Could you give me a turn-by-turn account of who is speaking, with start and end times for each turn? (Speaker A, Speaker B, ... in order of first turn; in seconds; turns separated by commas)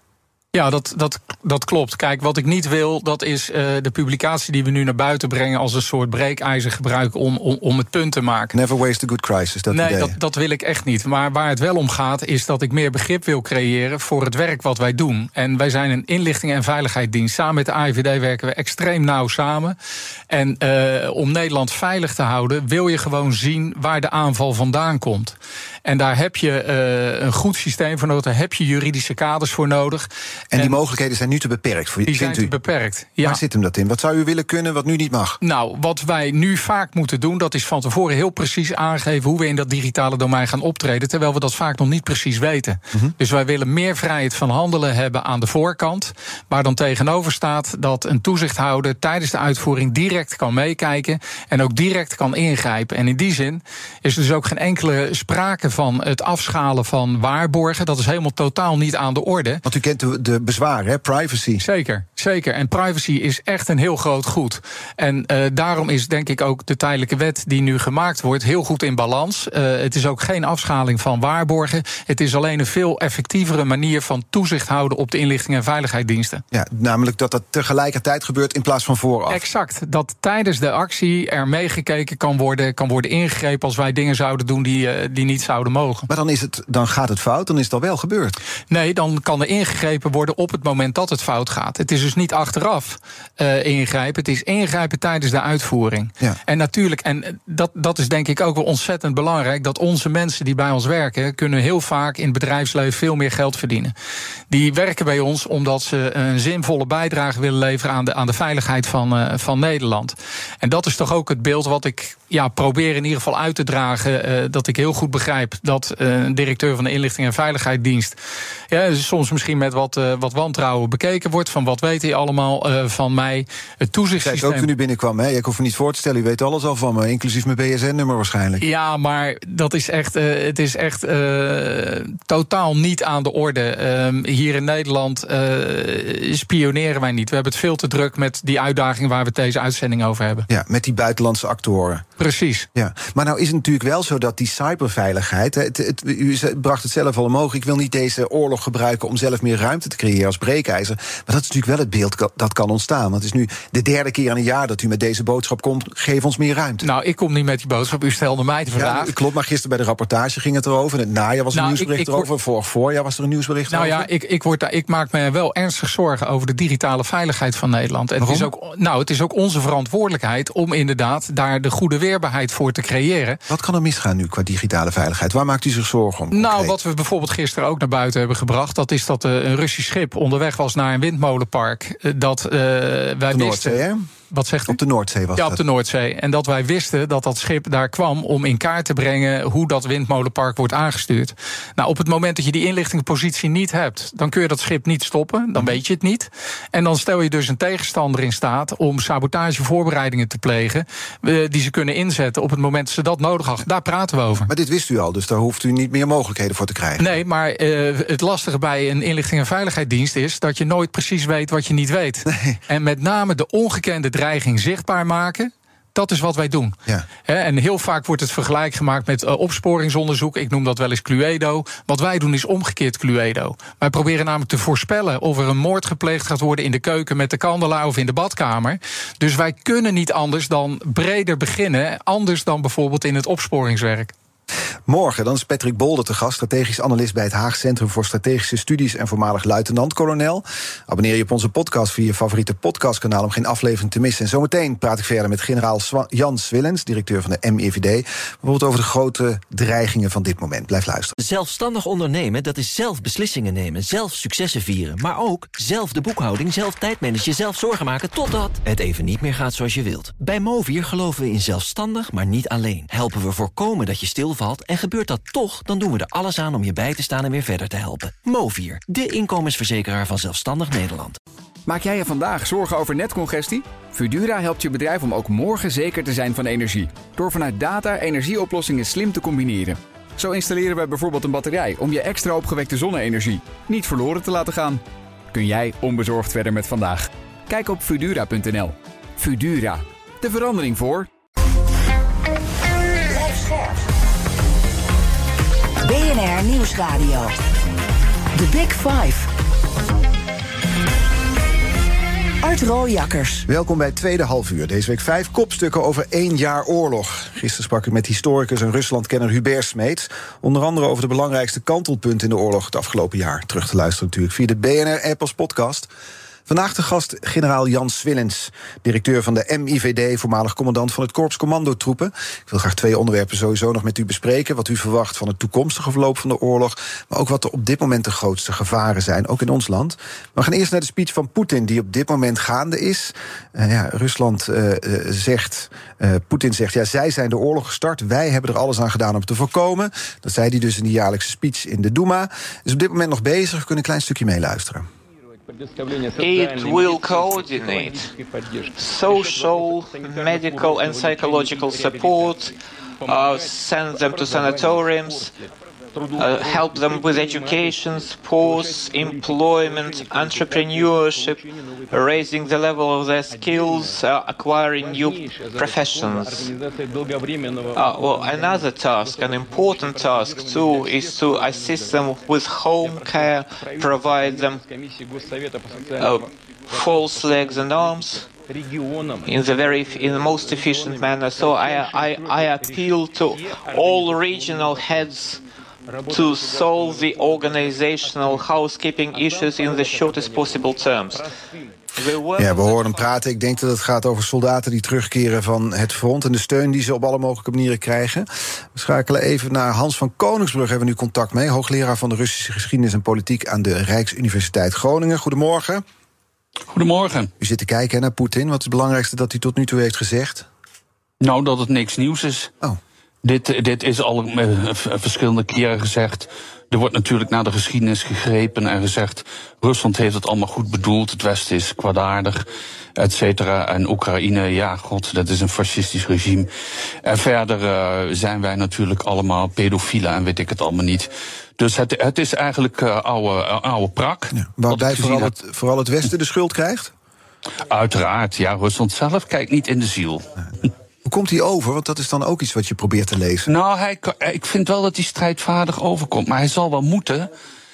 Speaker A: 0.5-8.5, Speaker B: 8.5-10.1, Speaker A: 9.7-19.8, Speaker A: 20.3-30.8, Speaker B: 30.5-32.5, Speaker A: 32.1-33.4, Speaker B: 33.2-35.4, Speaker A: 35.4-59.6, Speaker B: 59.6-61.6, Speaker A: 61.6-76.4, Speaker B: 76.5-79.4, Speaker A: 79.3-86.1, Speaker B: 86.1-88.4, Speaker A: 88.7-103.9, Speaker A: 104.5-118.2, Speaker A: 118.7-124.7, Speaker B: 124.2-128.6, Speaker A: 128.6-140.5, Speaker B: 140.5-142.1, Speaker A: 142.2-142.7, Speaker B: 142.8-156.8, Speaker A: 156.8-159.1, Speaker B: 158.8-164.1, Speaker A: 161.5-162.3, Speaker A: 163.7-173.4, Speaker B: 168.2-168.5, Speaker B: 173.5-176.8, Speaker A: 176.3-184.8, Speaker B: 183.3-184.1, Speaker B: 184.7-185.6, Speaker A: 185.3-204.5, Speaker B: 204.5-207.1, Speaker A: 207.0-234.1, Speaker B: 212.2-212.6, Speaker B: 234.9-251.1, Speaker C: 251.2-271.2, Speaker D: 271.7-291.1, Speaker E: 293.1-293.8, Speaker E: 295.8-297.3, Speaker E: 298.3-299.3, Speaker E: 302.4-303.5, Speaker B: 303.5-315.9, Speaker B: 316.5-344.9, Speaker F: 346.2-348.1, Speaker F: 348.8-355.3, Speaker F: 356.1-366.5, Speaker F: 367.8-374.6, Speaker F: 376.0-378.3, Speaker F: 379.2-385.4, Speaker F: 386.1-391.2, Speaker F: 391.9-392.9, Speaker B: 392.4-405.8, Speaker G: 406.7-407.3, Speaker B: 407.4-410.5, Speaker G: 411.2-412.5, Speaker G: 413.2-422.4, Speaker G: 423.0-426.5, Speaker G: 427.0-435.4, Speaker B: 434.3-436.9, Speaker G: 437.7-440.3, Speaker B: 441.0-443.5, Speaker G: 443.5-447.3